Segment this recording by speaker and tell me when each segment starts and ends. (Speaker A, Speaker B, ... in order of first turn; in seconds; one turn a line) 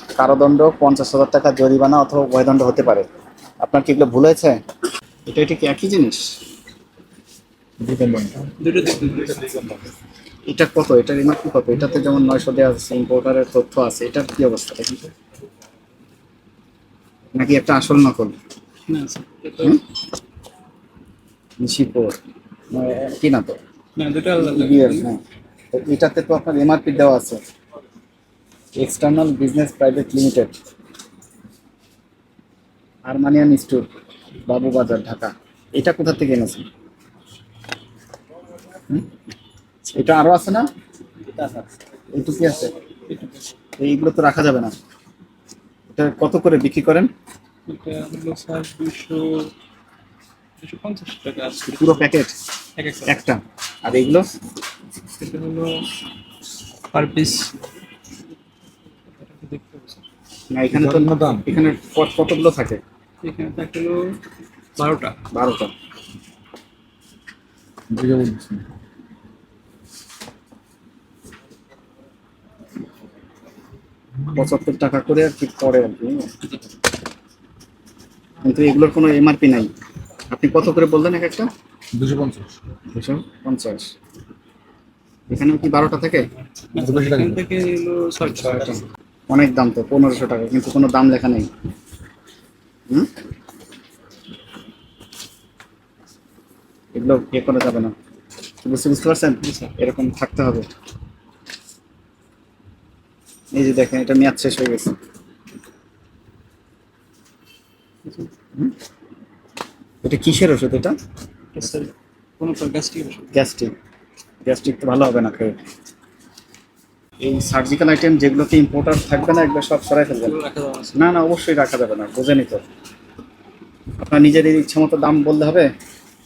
Speaker A: 0.2-3.1
Speaker A: 3.6-4.6
Speaker A: 5.3-6.3
Speaker B: 7.8-8.5
Speaker C: 8.6-9.8
Speaker A: 10.5-15.1
Speaker A: 17.4-18.4
Speaker C: 18.9-19.8
Speaker A: 21.6-22.2
Speaker A: 22.7-23.6
Speaker C: 24.0-25.1
Speaker A: 24.4-25.2
Speaker A: 25.7-27.4
Speaker A: 28.8-30.6
Speaker A: 33.0-33.9
Speaker A: 34.5-36.6
Speaker A: 39.9-40.7
Speaker C: 41.3-41.7
Speaker A: 42.1-42.7
Speaker C: 42.7-43.5
Speaker A: 43.8-44.8
Speaker A: 45.9-47.1
Speaker C: 47.7-49.5
Speaker C: 50.6-52.1
Speaker A: 51.6-52.4
Speaker C: 52.8-53.2
Speaker A: 53.1-54.3
Speaker C: 55.2-55.8
Speaker C: 56.9-57.6
Speaker C: 59.2-60.0
Speaker A: 60.5-62.8
Speaker B: 60.7-61.5
Speaker C: 63.2-64.2
Speaker C: 64.8-65.2
Speaker A: 65.3-65.7
Speaker B: 67.9-68.7
Speaker A: 74.3-76.3
Speaker A: 78.4-79.7
Speaker A: 80.3-81.5
Speaker B: 81.9-82.5
Speaker A: 82.9-83.9
Speaker A: 85.3-86.3
Speaker C: 86.7-88.8
Speaker B: 86.8-87.4
Speaker A: 88.2-91.5
Speaker A: 96.9-97.9
Speaker A: 98.6-100.7
Speaker C: 99.4-99.7
Speaker A: 103.5-104.9
Speaker C: 108.1-108.3
Speaker A: 110.0-111.0
Speaker C: 111.5-113.3
Speaker A: 113.3-113.7
Speaker A: 114.5-115.6
Speaker A: 117.2-120.4
Speaker C: 120.2-121.1
Speaker A: 121.0-122.6
Speaker A: 124.0-125.7